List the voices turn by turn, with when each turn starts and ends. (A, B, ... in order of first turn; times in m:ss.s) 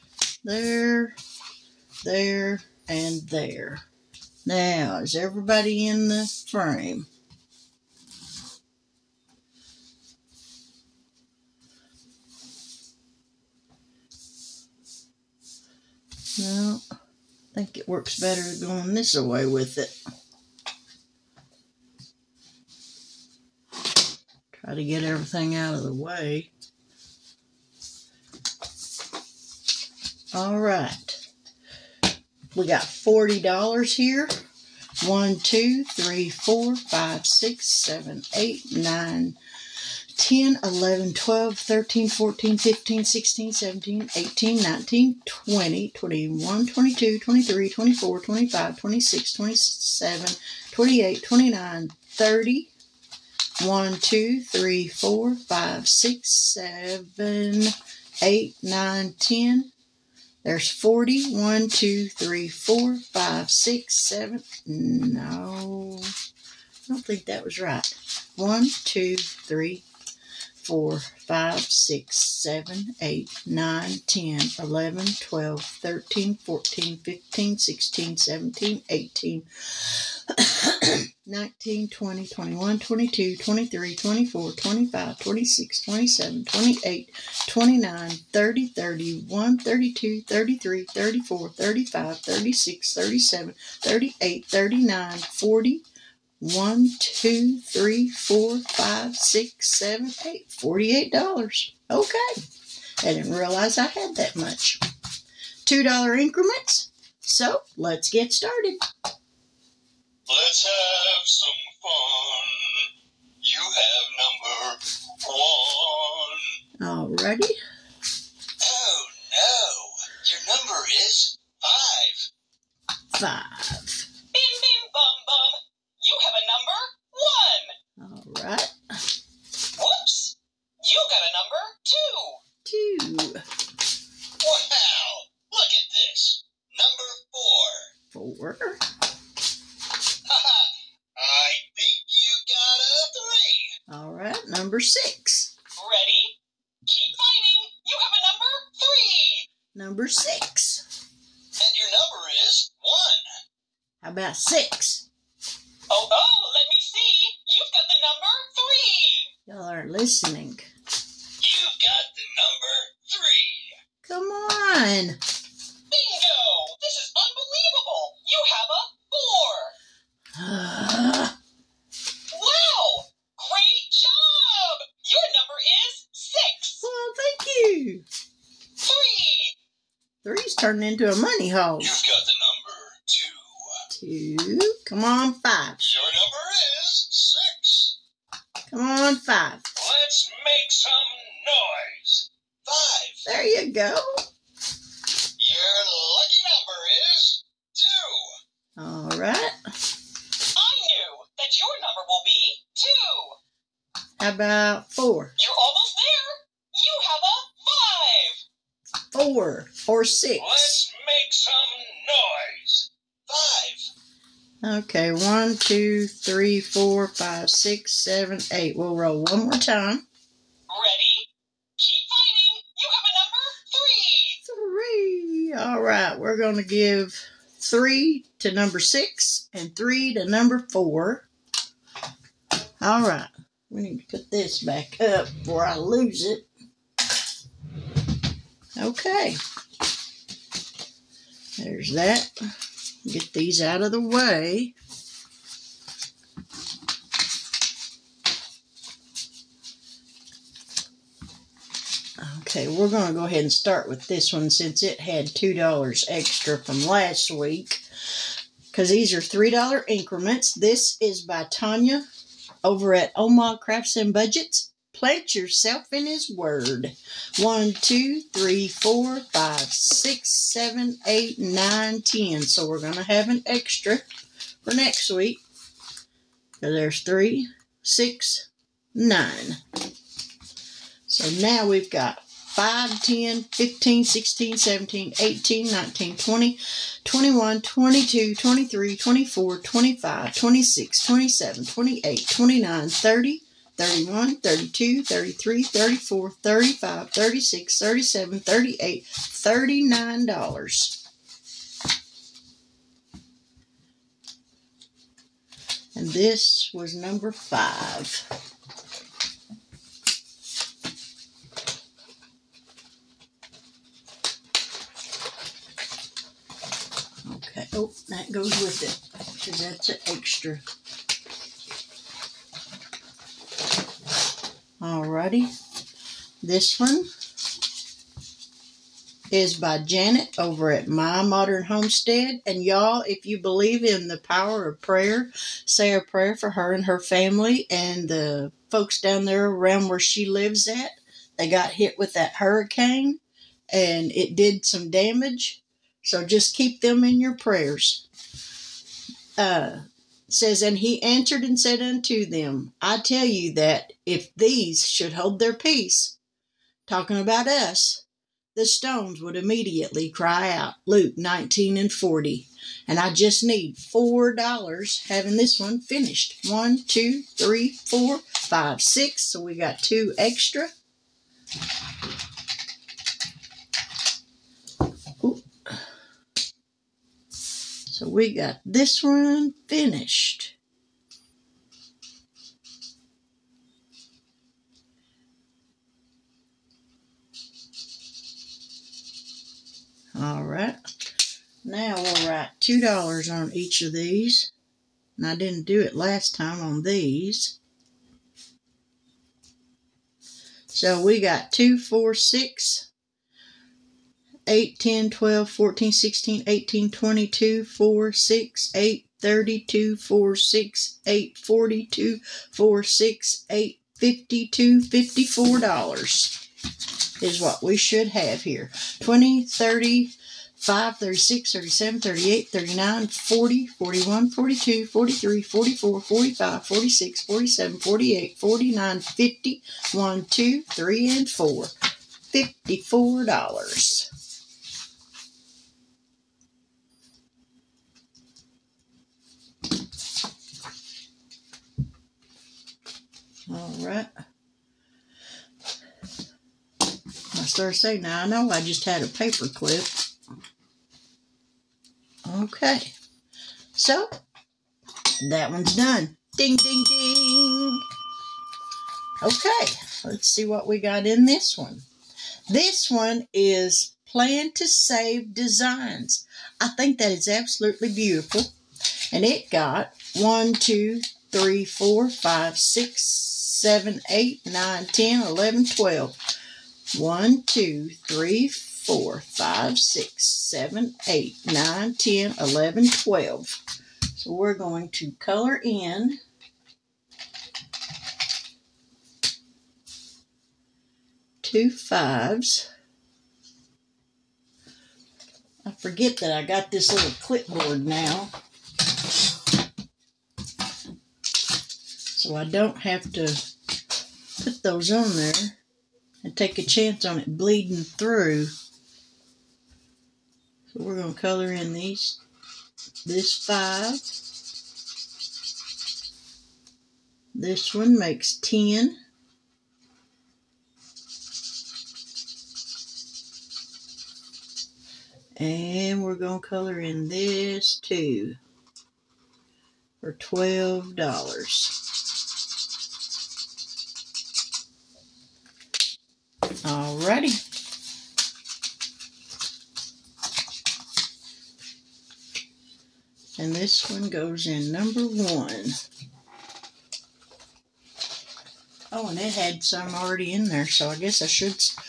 0:00.4-0:01.2 A
0:02.0-0:03.8 A
0:04.5-0:07.1 A
0:16.4-0:16.8 A
0:17.5-0:20.0 A
0:24.5-0:26.5 A
0:30.3-0:31.2 A
0:32.6-0:34.3 A
0:35.0-0:39.4 A
0:40.2-0:52.7 A
0:53.6-0:59.7 A
1:00.4-1:06.1 A
1:06.9-1:09.8 A
1:10.6-1:35.8 A
1:36.4-1:42.4 A
1:43.0-1:44.8 A
1:45.6-1:48.8 A
1:50.3-1:52.9 B
1:53.4-1:56.6 B
1:56.8-1:57.6 A
1:58.6-2:02.3 B
2:03.1-2:04.1 A
2:04.3-2:07.7 C
2:08.0-2:08.7 A
2:09.8-2:12.4 C
2:12.6-2:13.4 A
2:14.4-2:17.9 B
2:18.1-2:18.8 A
2:20.2-2:23.7 B
2:23.9-2:25.5 A
2:25.8-2:26.4 C
2:26.9-2:29.5 C
2:29.7-2:30.8 A
2:31.6-2:33.2 B
2:34.0-2:35.1 A
2:35.9-2:39.3 C
2:39.5-2:40.7 A
2:41.4-2:43.7 B
2:44.0-2:45.2 A
2:45.9-2:49.7 C
2:50.4-2:51.3 A
2:52.3-2:56.8 C
2:56.8-2:58.0 A
2:58.8-2:59.5 C
3:00.2-3:02.0 A
3:01.8-3:03.8 B
3:03.9-3:05.9 A
3:05.8-3:08.0 B
3:08.7-3:09.6 A
3:09.8-3:13.2 B
3:13.3-3:14.2 A
3:15.4-3:18.4 B
3:18.8-3:19.6 A
3:20.6-3:23.4 C
3:24.2-3:25.3 A
3:25.4-3:28.4 C
3:29.1-3:30.9 A
3:30.4-3:33.9 B
3:34.6-3:40.0 A
3:40.7-3:41.3 C
3:41.8-3:44.4 C
3:44.4-3:51.3 A
3:52.8-3:56.5 A
3:58.8-3:59.4 A
4:01.6-4:02.5 A
4:03.0-4:04.7 A
4:12.2-4:17.8 A
4:18.7-4:22.1 A
4:22.6-4:35.4 A
4:36.6-4:39.6 A
4:41.1-5:01.0 A
5:06.0-5:08.3 A
5:17.2-5:20.6 A
5:24.8-5:25.5 A
5:26.4-5:27.1 A
5:29.3-5:43.2 A
5:43.7-5:48.0 A
5:49.4-5:56.2 A
5:56.9-5:58.0 A
5:58.6-6:10.7 A
6:15.2-6:15.9 A
6:17.9-6:20.6 A
6:30.2-6:30.8 A
6:31.6-6:34.5 A
6:35.2-6:37.6 A
6:40.7-6:42.9 A
6:44.5-6:56.4 A
6:57.2-7:11.7 A
7:12.3-7:14.1 A
7:23.5-7:24.1 A
7:27.3-7:30.0 A
7:32.2-7:32.9 A
7:33.8-7:34.1 A
7:35.2-7:37.8 A
7:39.2-7:41.8 A
7:42.5-7:48.5 A
7:49.1-7:56.2 A
7:56.9-8:03.6 A
8:04.2-8:06.2 A
8:11.4-8:12.7 A
8:15.7-8:18.3 A
8:22.1-8:23.4 A
8:24.4-8:25.6 A
8:26.2-8:28.5 A
8:30.7-8:32.2 A
8:33.0-8:34.0 A
8:37.4-8:39.0 A
8:45.4-8:48.4 A
8:50.0-8:51.8 A
8:56.6-8:57.4 A
9:03.4-9:05.8 A
9:08.9-9:11.8 A